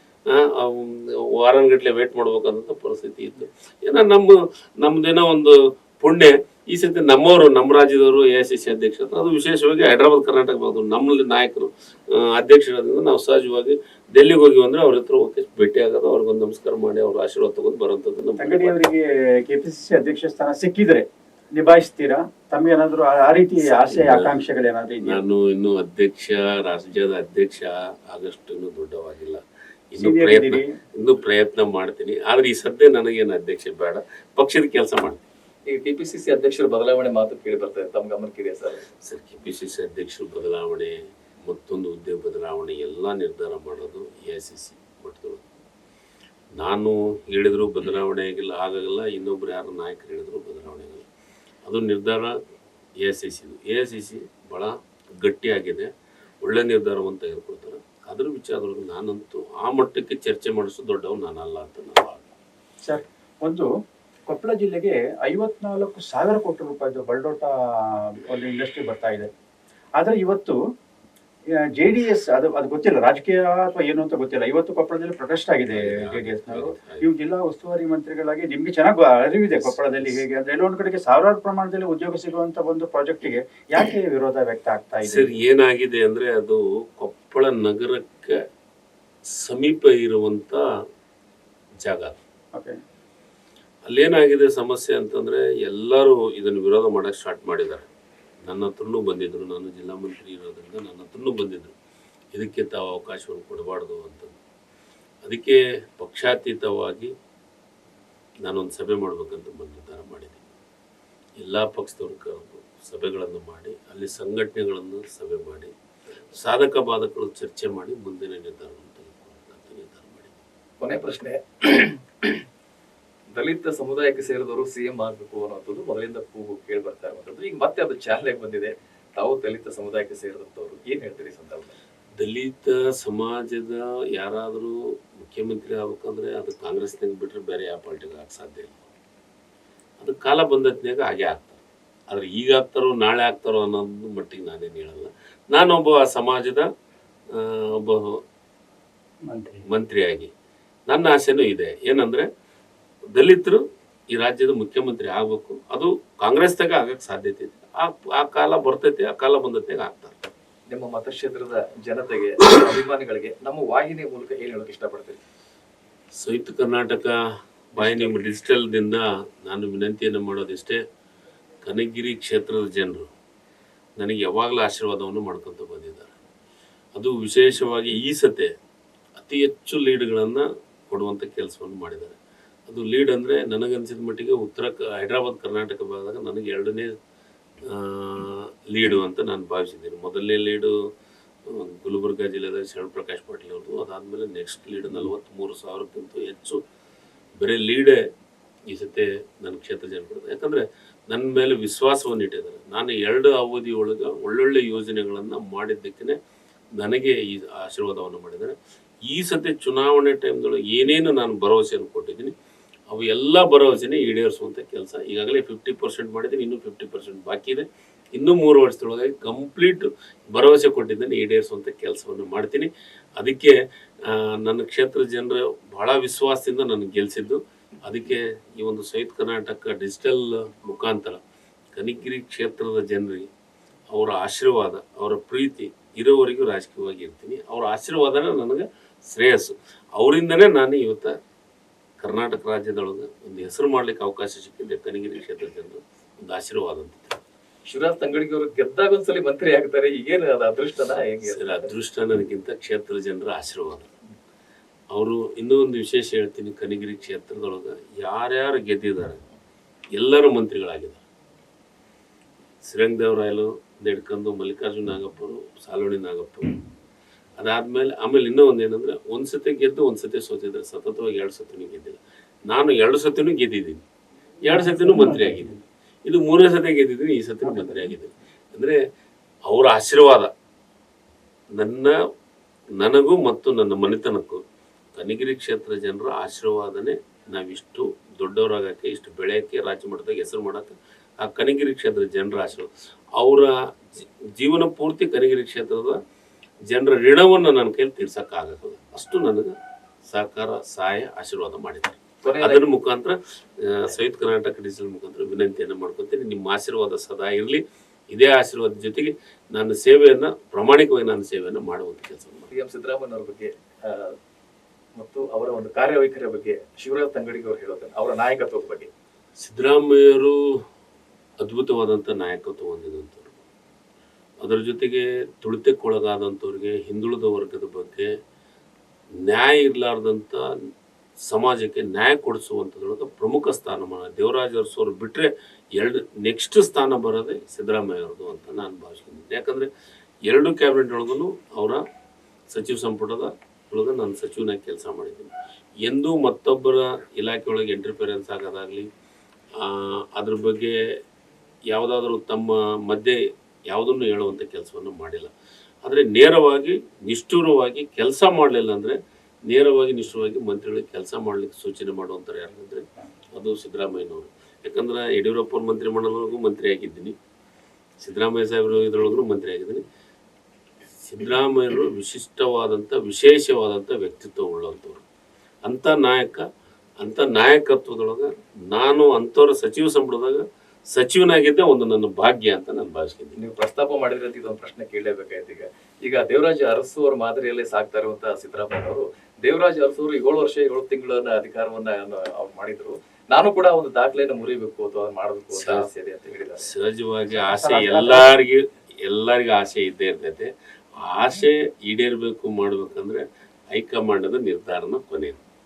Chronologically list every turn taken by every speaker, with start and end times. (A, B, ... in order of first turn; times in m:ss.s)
0:00.3-0:18.8 A
0:18.4-0:25.2 B
0:23.6-0:24.4 A
0:25.0-0:29.4 A
0:29.9-0:35.2 A
0:30.0-0:30.8 B
0:35.7-0:38.9 C
0:39.0-0:40.9 A
0:41.5-0:45.4 A
0:46.6-0:51.0 A
0:51.6-0:52.4 A
0:53.0-0:55.9 A
0:56.4-1:02.3 A
1:02.8-1:03.7 B
1:04.3-1:09.3 B
1:10.0-1:10.6 B
1:11.8-1:25.4 B
1:15.6-1:17.1 A
1:19.6-1:20.2 A
1:25.0-1:28.4 A
1:29.4-1:30.6 A
1:31.8-1:32.2 A
1:33.9-1:37.9 A
1:38.4-1:41.7 A
1:42.3-1:44.4 A
1:45.2-1:47.1 A
1:48.4-1:50.4 A
1:51.4-1:55.7 A
1:56.4-2:00.4 A
2:00.8-2:02.4 C
2:03.4-2:11.8 C
2:12.2-2:18.8 A
2:20.0-2:26.7 A
2:27.3-2:28.2 A
2:29.3-2:29.6 B
2:29.7-2:30.3 A
2:30.9-2:32.3 A
2:33.1-2:40.2 A
2:40.7-2:45.2 C
2:46.2-2:47.2 A
2:47.7-2:50.8 A
2:47.8-2:48.2 C
2:51.6-2:53.1 A
2:54.0-2:56.1 A
2:57.0-2:58.5 A
2:59.2-3:02.2 A
3:02.7-3:06.9 A
3:07.7-3:10.7 A
3:11.5-3:16.6 A
3:17.4-3:18.0 A
3:18.7-3:26.2 A
3:26.8-3:28.6 A
3:29.1-3:32.3 A
3:32.9-3:43.5 A
3:44.1-3:51.2 A
3:51.8-3:53.3 A
3:53.9-4:01.1 A
4:02.0-4:07.2 A
4:07.7-4:11.7 C
4:11.3-4:13.9 A
4:14.9-4:19.2 A
4:20.0-4:21.0 A
4:22.6-4:26.5 A
4:27.4-4:33.8 A
4:34.4-4:38.8 A
4:34.5-4:35.5 B
4:37.4-4:37.9 B
4:39.5-4:40.3 A
4:41.5-4:41.9 A
4:42.8-4:44.4 A
4:45.0-4:56.0 A
4:56.7-4:59.6 A
5:00.1-5:12.5 A
5:02.2-5:02.7 C
5:12.5-5:14.2 C
5:15.0-5:18.9 C
5:19.4-5:20.4 A
5:21.4-5:23.4 A
5:24.4-5:28.1 A
5:29.2-5:30.5 A
5:31.2-5:39.7 A
5:40.3-5:41.8 A
5:42.5-5:45.3 A
5:45.9-5:48.9 A
5:49.6-5:50.8 A
5:51.7-5:55.3 A
5:55.8-6:07.2 A
6:08.0-6:09.8 A
6:11.1-6:15.0 A
6:15.6-6:16.5 A
6:17.0-6:23.4 A
6:23.4-6:36.7 C
6:35.5-6:35.9 A
6:36.6-6:45.4 A
6:37.5-6:38.3 B